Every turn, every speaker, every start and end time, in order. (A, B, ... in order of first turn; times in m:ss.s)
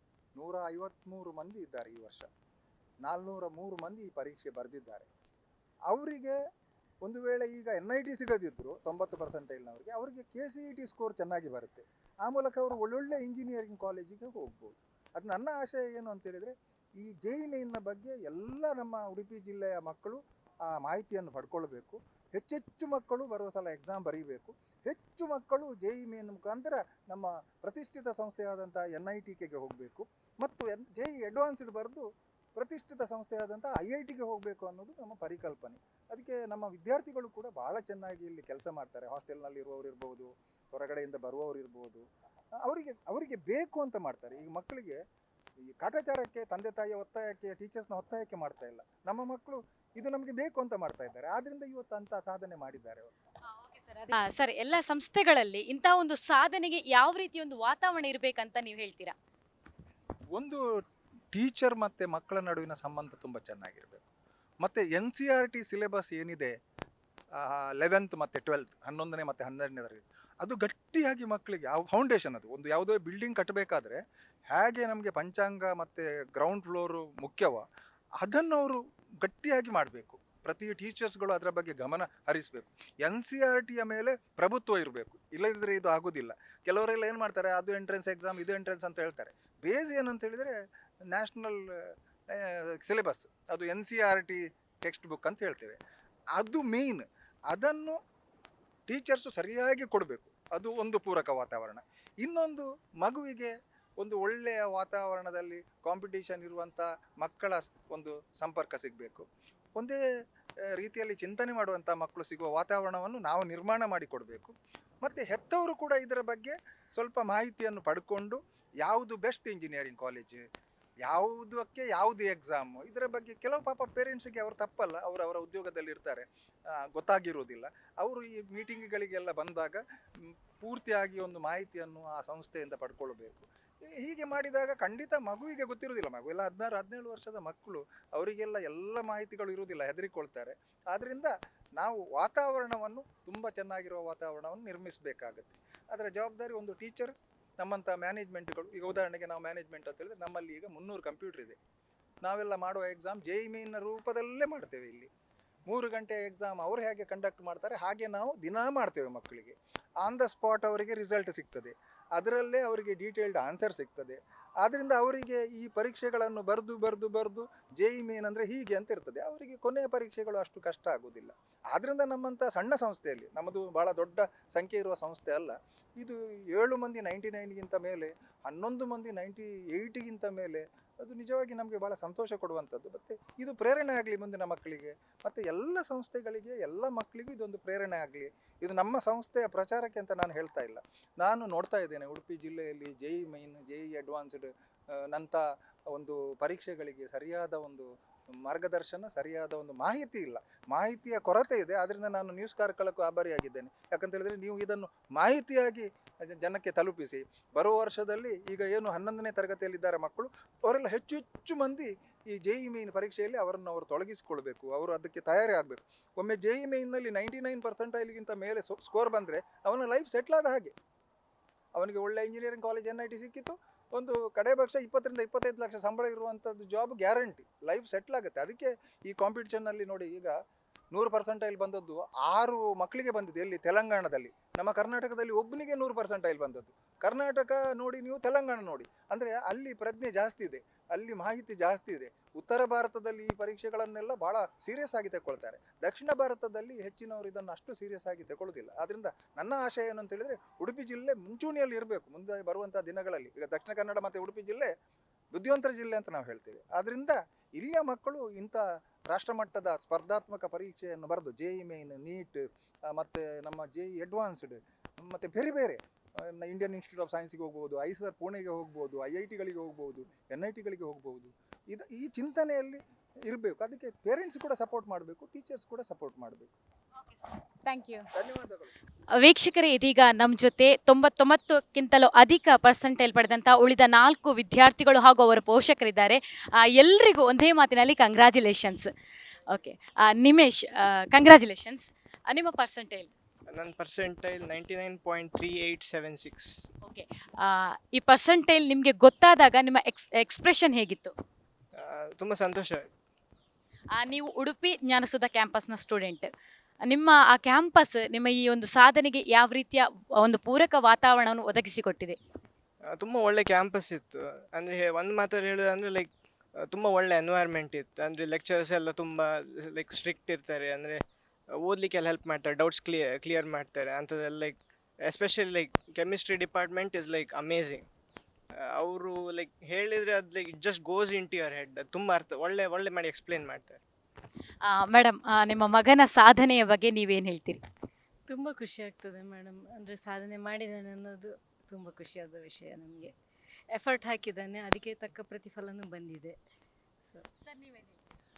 0:00.4-0:02.3 A
0:03.0-0:05.1 A
0:05.9-0:06.4 A
0:07.0-0:32.0 A
0:32.6-0:42.0 A
0:42.6-0:45.0 A
0:45.8-0:53.1 A
0:53.5-0:59.2 B
1:00.3-1:00.6 A
1:01.3-1:04.1 A
1:04.6-1:06.6 A
1:07.4-1:17.6 A
1:18.2-1:30.6 A
1:31.1-1:35.8 A
1:36.4-1:38.0 A
1:38.9-1:50.0 A
1:50.8-2:00.4 A
2:01.0-2:31.6 A
2:32.2-2:35.1 A
2:35.7-3:17.9 A
3:18.4-3:40.8 A
3:41.8-3:50.4 A
3:50.9-4:14.7 A
4:15.3-4:36.5 A
4:37.0-4:38.1 B
4:38.1-4:38.7 A
4:39.2-4:48.9 B
4:49.5-4:53.1 B
4:53.5-4:56.6 C
4:56.8-5:01.1 B
5:01.8-5:02.9 C
5:04.0-5:06.3 B
5:06.8-5:12.2 B
5:12.9-5:16.1 C
5:16.6-5:21.0 C
5:21.6-5:27.9 C
5:28.6-5:33.8 C
5:34.6-5:37.6 B
5:38.3-5:43.1 D
5:43.8-5:46.4 D
5:47.4-5:48.0 B